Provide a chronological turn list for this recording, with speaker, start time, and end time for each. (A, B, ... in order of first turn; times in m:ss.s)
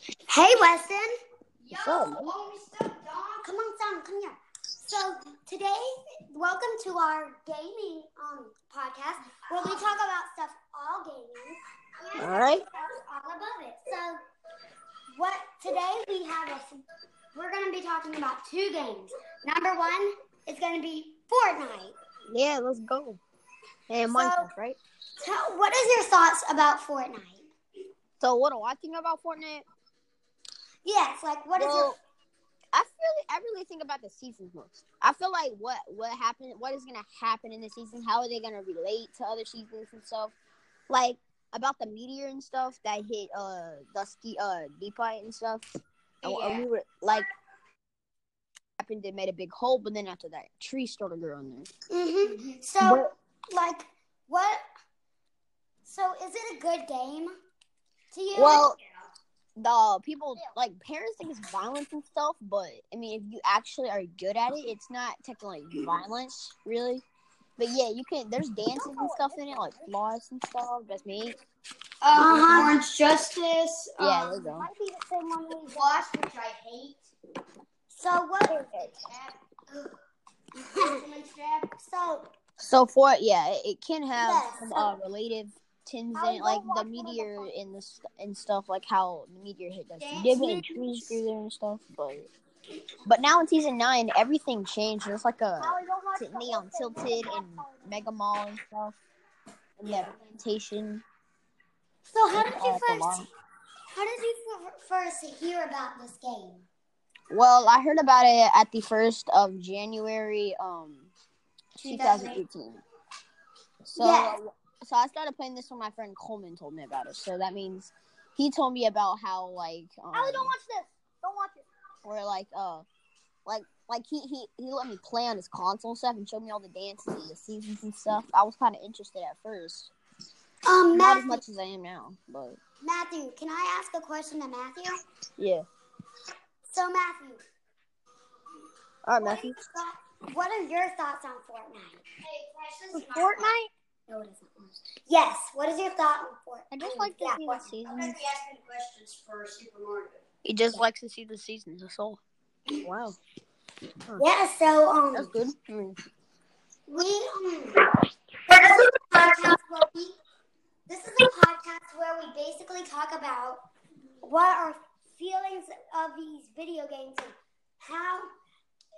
0:00.3-0:01.1 A
0:01.6-0:03.5 B
0:01.7-0:02.3 C
0:03.4-0:14.2 A
0:12.2-0:12.6 C
0:15.1-0:16.8 A
0:17.3-0:22.0 A
0:22.3-0:23.2 C
0:23.9-0:24.8 C
0:24.1-0:24.5 A
0:25.2-0:27.5 A
0:28.2-0:29.6 C
0:30.8-0:32.0 A
0:31.6-0:32.0 C
0:32.7-0:40.3 C
0:40.9-0:45.7 C
0:46.2-0:46.7 B
0:46.2-0:47.3 C
0:48.8-0:51.7 C
0:51.9-0:54.6 A
0:52.8-0:53.1 C
0:55.8-0:57.3 A
0:58.1-0:58.7 A
0:58.4-0:58.8 C
0:59.6-1:07.0 C
1:07.6-1:11.4 C
1:08.8-1:09.7 A
1:12.0-1:14.4 B
1:12.2-1:12.8 A
1:12.2-1:12.8 C
1:14.0-1:14.7 C
1:14.6-1:15.9 A
1:15.7-1:17.1 B
1:17.9-1:18.8 A
1:18.8-1:19.4 B
1:20.6-1:21.0 A
1:20.7-1:21.7 B
1:21.8-1:22.3 A
1:22.6-1:32.3 C
1:24.1-1:25.0 A
1:26.2-1:27.5 A
1:30.0-1:31.2 B
1:33.1-1:39.0 C
1:35.6-1:38.1 A
1:39.8-1:41.0 C
1:42.1-1:43.3 A
1:42.3-1:43.3 C
1:43.9-1:46.7 A
1:47.3-1:51.1 C
1:51.8-1:52.4 B
1:51.8-1:52.8 C
1:53.8-2:00.6 C
1:54.0-1:54.4 A
2:00.1-2:01.5 A
2:02.0-2:02.9 C
2:03.5-2:09.9 C
2:10.7-2:11.4 A
2:10.9-2:12.6 C
2:12.8-2:15.0 A
2:15.4-2:15.7 C
2:16.7-2:17.4 A
2:19.1-2:19.6 C
2:19.2-2:22.0 A
2:22.2-2:23.6 B
2:22.9-2:23.7 C
2:24.1-2:27.7 A
2:26.7-2:28.2 C
2:27.8-2:30.2 B
2:30.4-2:32.2 C
2:32.8-2:33.2 C
2:34.2-2:35.3 A
2:35.1-2:36.0 C
2:36.9-2:37.8 A
2:38.5-2:40.2 A
2:40.9-2:43.6 A
2:44.2-2:48.3 A